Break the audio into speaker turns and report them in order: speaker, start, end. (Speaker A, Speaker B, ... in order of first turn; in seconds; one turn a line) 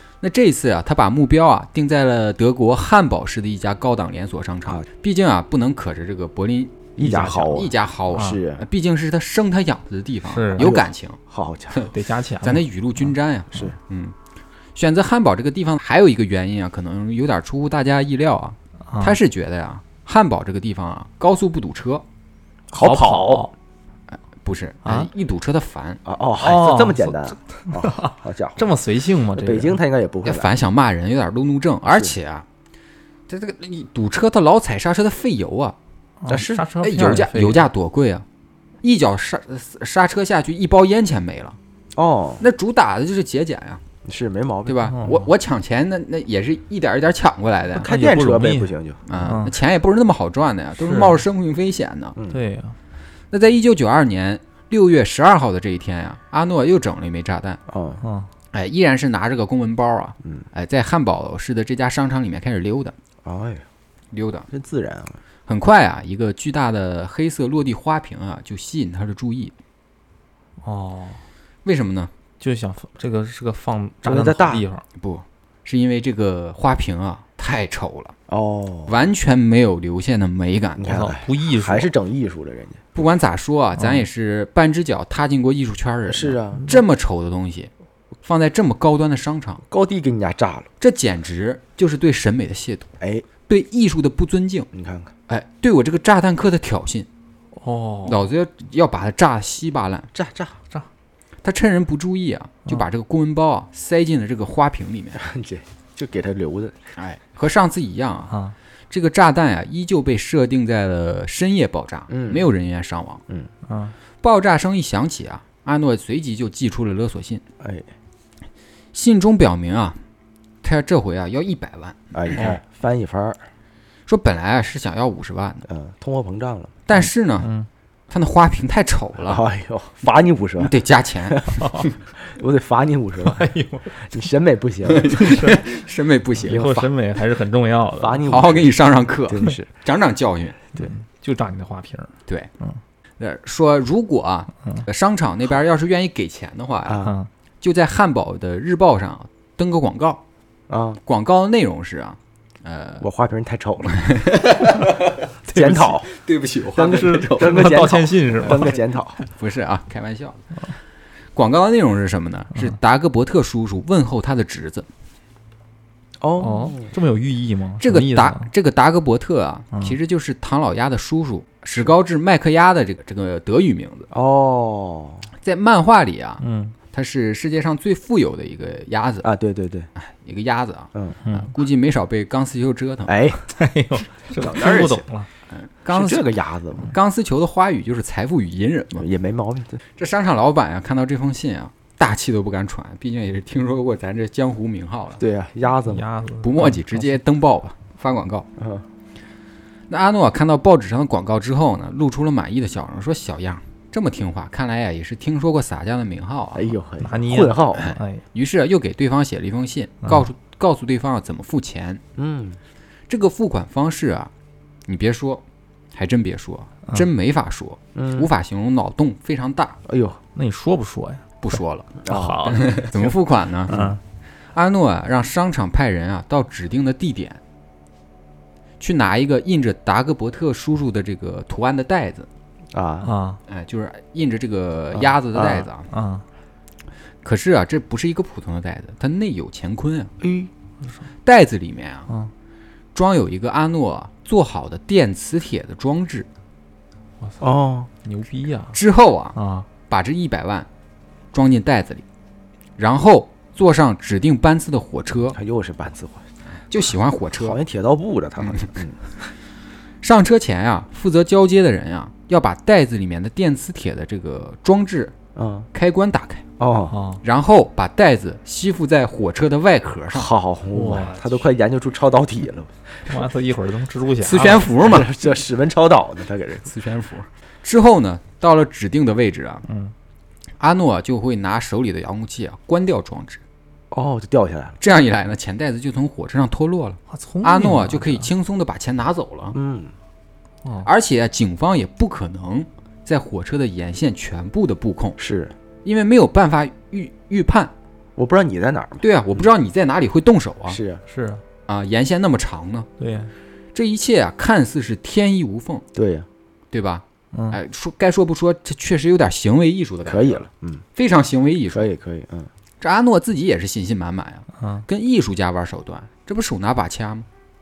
Speaker A: 0.2-11.2
Speaker B: 7.0-8.7
Speaker C: 7.0-7.5
Speaker C: 8.1-8.4
Speaker C: 10.3-10.7
Speaker B: 10.6-11.8
Speaker C: 11.9-12.6
Speaker A: 12.4-14.1
Speaker A: 14.7-22.1
Speaker C: 18.9-19.2
Speaker B: 22.7-23.5
Speaker C: 22.8-23.5
Speaker A: 24.1-26.0
Speaker B: 26.1-28.7
Speaker C: 26.4-29.8
Speaker B: 29.4-30.5
Speaker A: 30.2-32.5
Speaker B: 31.9-32.1
Speaker A: 33.3-35.8
Speaker C: 36.2-37.7
Speaker A: 36.4-38.2
Speaker A: 38.8-41.6
Speaker B: 41.9-42.4
Speaker A: 42.4-43.8
Speaker B: 44.0-45.1
Speaker A: 44.6-47.9
Speaker C: 44.9-45.2
Speaker B: 47.7-49.0
Speaker C: 47.9-49.6
Speaker A: 49.1-52.1
Speaker C: 50.9-51.2
Speaker C: 52.3-52.8
Speaker A: 53.3-57.6
Speaker B: 57.7-58.0
Speaker C: 58.0-58.3
Speaker A: 58.5-62.9
Speaker B: 63.2-63.6
Speaker A: 64.1-64.5
Speaker B: 64.5-65.2
Speaker A: 65.5-69.5
Speaker C: 70.6-71.2
Speaker A: 71.6-72.1
Speaker C: 72.4-74.8
Speaker B: 74.0-74.7
Speaker A: 75.0-78.1
Speaker B: 78.3-79.0
Speaker A: 78.9-81.0
Speaker B: 80.8-82.8
Speaker C: 80.9-81.9
Speaker A: 82.9-87.7
Speaker C: 83.8-84.0
Speaker B: 86.1-86.7
Speaker A: 88.2-89.6
Speaker B: 89.7-90.7
Speaker A: 90.8-92.9
Speaker B: 93.0-93.2
Speaker A: 93.5-94.7
Speaker B: 94.7-95.1
Speaker A: 95.3-97.1
Speaker C: 97.5-98.2
Speaker A: 98.0-100.1
Speaker B: 100.1-100.5
Speaker A: 101.4-105.2
Speaker B: 105.2-106.8
Speaker A: 107.0-108.3
Speaker A: 108.9-113.2
Speaker B: 112.1-112.5
Speaker C: 113.7-113.9
Speaker A: 114.2-117.4
Speaker B: 117.6-117.9
Speaker A: 118.9-120.0
Speaker A: 120.6-122.5
Speaker B: 122.1-123.4
Speaker A: 124.1-125.6
Speaker B: 125.7-126.7
Speaker A: 126.9-127.5
Speaker C: 127.4-127.7
Speaker A: 128.1-129.4
Speaker B: 129.2-130.7
Speaker A: 130.6-131.9
Speaker B: 131.3-131.6
Speaker C: 131.6-131.9
Speaker B: 132.2-135.1
Speaker C: 133.2-134.1
Speaker A: 134.9-136.9
Speaker C: 135.1-135.6
Speaker C: 136.4-138.3
Speaker B: 138.0-138.7
Speaker A: 138.2-140.6
Speaker B: 139.3-139.7
Speaker C: 140.8-142.8
Speaker A: 143.2-147.1
Speaker B: 146.9-147.1
Speaker C: 147.0-147.3
Speaker A: 147.6-150.2
Speaker B: 150.7-151.0
Speaker A: 151.1-153.1
Speaker B: 153.0-154.1
Speaker A: 153.9-155.2
Speaker B: 155.5-156.1
Speaker C: 155.5-155.9
Speaker A: 156.1-157.8
Speaker B: 156.7-159.2
Speaker C: 156.8-158.8
Speaker A: 159.2-160.4
Speaker A: 161.4-164.9
Speaker B: 166.2-166.9
Speaker C: 166.4-168.5
Speaker A: 167.8-174.1
Speaker B: 174.1-175.3
Speaker A: 175.4-179.3
Speaker C: 176.4-176.7
Speaker B: 179.2-179.9
Speaker A: 179.9-183.1
Speaker C: 181.2-181.5
Speaker B: 183.1-183.4
Speaker C: 183.5-185.3
Speaker B: 184.4-185.1
Speaker A: 185.5-186.3
Speaker B: 185.9-186.9
Speaker A: 186.8-189.1
Speaker B: 189.0-189.8
Speaker A: 190.0-195.2
Speaker B: 195.2-196.1
Speaker C: 195.8-197.2
Speaker A: 196.4-198.5
Speaker B: 198.6-198.8
Speaker A: 199.9-206.7
Speaker B: 206.6-207.9
Speaker C: 207.0-208.2
Speaker A: 207.8-212.0
Speaker B: 212.2-212.6
Speaker A: 213.1-214.3
Speaker A: 214.9-215.4
Speaker A: 215.9-219.8
Speaker B: 217.9-218.3
Speaker B: 219.9-220.2
Speaker C: 220.3-221.4
Speaker A: 221.4-221.9
Speaker B: 222.0-222.5
Speaker C: 222.1-223.1
Speaker A: 222.5-223.9
Speaker C: 223.7-224.0
Speaker B: 223.7-223.9
Speaker A: 224.5-227.4
Speaker A: 228.8-232.3
Speaker B: 232.7-233.1
Speaker C: 233.0-233.4
Speaker A: 233.5-235.9
Speaker B: 234.9-235.6
Speaker C: 235.9-236.2
Speaker A: 237.2-240.1
Speaker B: 240.2-240.5
Speaker A: 241.2-242.1
Speaker A: 242.9-246.3
Speaker B: 247.4-247.9
Speaker C: 248.0-248.8
Speaker A: 248.7-249.4
Speaker C: 249.3-249.7
Speaker A: 249.9-250.7
Speaker A: 251.3-252.0
Speaker A: 252.8-255.4
Speaker B: 255.3-256.2
Speaker A: 256.7-257.6
Speaker B: 257.4-259.1
Speaker A: 258.4-258.7
Speaker A: 260.0-265.1
Speaker B: 265.4-265.7
Speaker A: 265.7-266.4
Speaker B: 266.6-267.0
Speaker C: 266.9-267.2
Speaker A: 267.2-270.3
Speaker B: 270.1-272.7
Speaker C: 270.7-271.4
Speaker C: 273.1-274.7
Speaker A: 274.2-275.1
Speaker B: 274.7-276.7
Speaker A: 276.7-279.6
Speaker C: 279.7-279.9
Speaker A: 280.6-283.4
Speaker B: 283.9-284.8
Speaker A: 284.8-289.6
Speaker C: 287.1-288.3
Speaker B: 289.5-289.9
Speaker A: 290.8-295.2
Speaker B: 295.2-295.5
Speaker A: 295.9-297.7
Speaker B: 298.1-299.5
Speaker A: 299.0-300.8
Speaker B: 300.7-301.0
Speaker C: 301.1-301.4
Speaker A: 301.7-302.9
Speaker C: 303.0-303.3
Speaker A: 303.7-305.8
Speaker B: 305.9-306.3
Speaker A: 306.7-310.4
Speaker C: 307.3-307.6
Speaker B: 310.1-310.8
Speaker A: 310.9-311.9
Speaker B: 311.7-312.5
Speaker A: 312.8-317.2
Speaker C: 314.6-314.8